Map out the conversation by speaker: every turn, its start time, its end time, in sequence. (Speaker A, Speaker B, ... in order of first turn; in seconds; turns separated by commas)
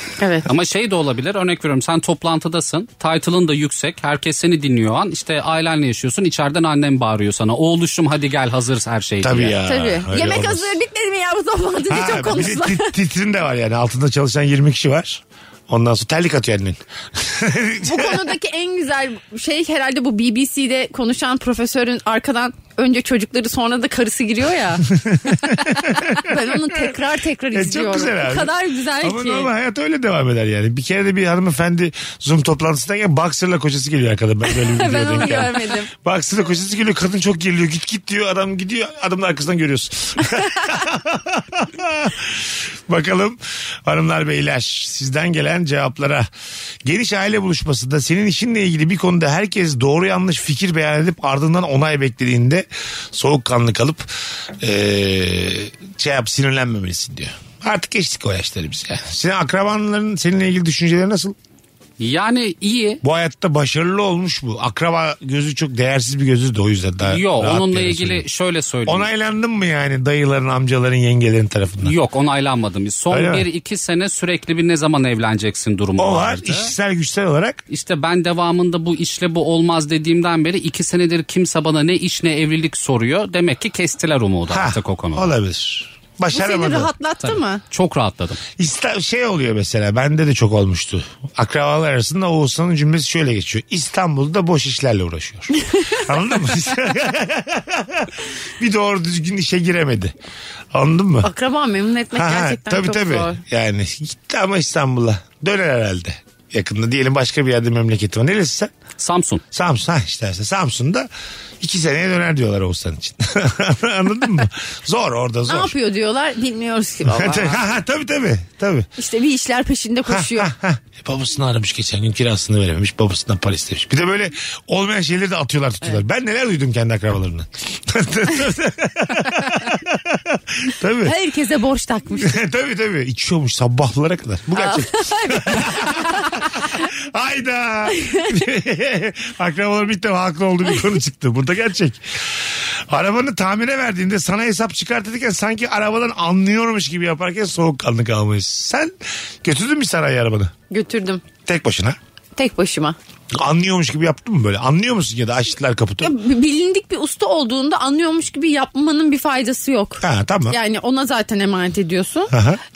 Speaker A: 0.2-0.5, Speaker B: 0.5-9.6, Speaker C: 9.2-10.8, Speaker A: 9.6-12.9, Speaker C: 11.9-18.3, Speaker A: 17.8-24.9, Speaker C: 24.9-27.0, Speaker A: 25.9-29.5, Speaker C: 27.5-46.3, Speaker A: 34.5-35.9, Speaker C: 46.8-61.4, Speaker B: 62.0-63.0, Speaker C: 63.0-68.2, Speaker B: 67.1-69.1, Speaker C: 68.9-71.9, Speaker B: 71.8-76.7, Speaker C: 73.1-73.5, Speaker C: 76.0-77.6, Speaker B: 77.7-85.3, Speaker C: 84.5-86.9, Speaker A: 86.3-87.6, Speaker B: 87.2-88.4, Speaker C: 88.6-100.1, Speaker C: 100.7-101.3, Speaker A: 101.2-103.4, Speaker C: 102.1-108.7, Speaker B: 109.0-109.4, Speaker C: 109.5-111.1, Speaker C: 111.6-115.7, Speaker A: 115.5-117.7, Speaker C: 117.1-118.9, Speaker A: 119.0-120.5, Speaker C: 120.1-131.1, Speaker A: 131.0-132.4, Speaker C: 132.2-148.9, Speaker A: 134.6-136.8, Speaker A: 138.0-138.3, Speaker C: 149.4-150.5, Speaker A: 150.7-151.2, Speaker C: 151.5-152.0, Speaker A: 152.4-153.0, Speaker C: 153.3-156.2, Speaker A: 156.0-162.3, Speaker C: 160.0-160.6, Speaker C: 162.3-162.6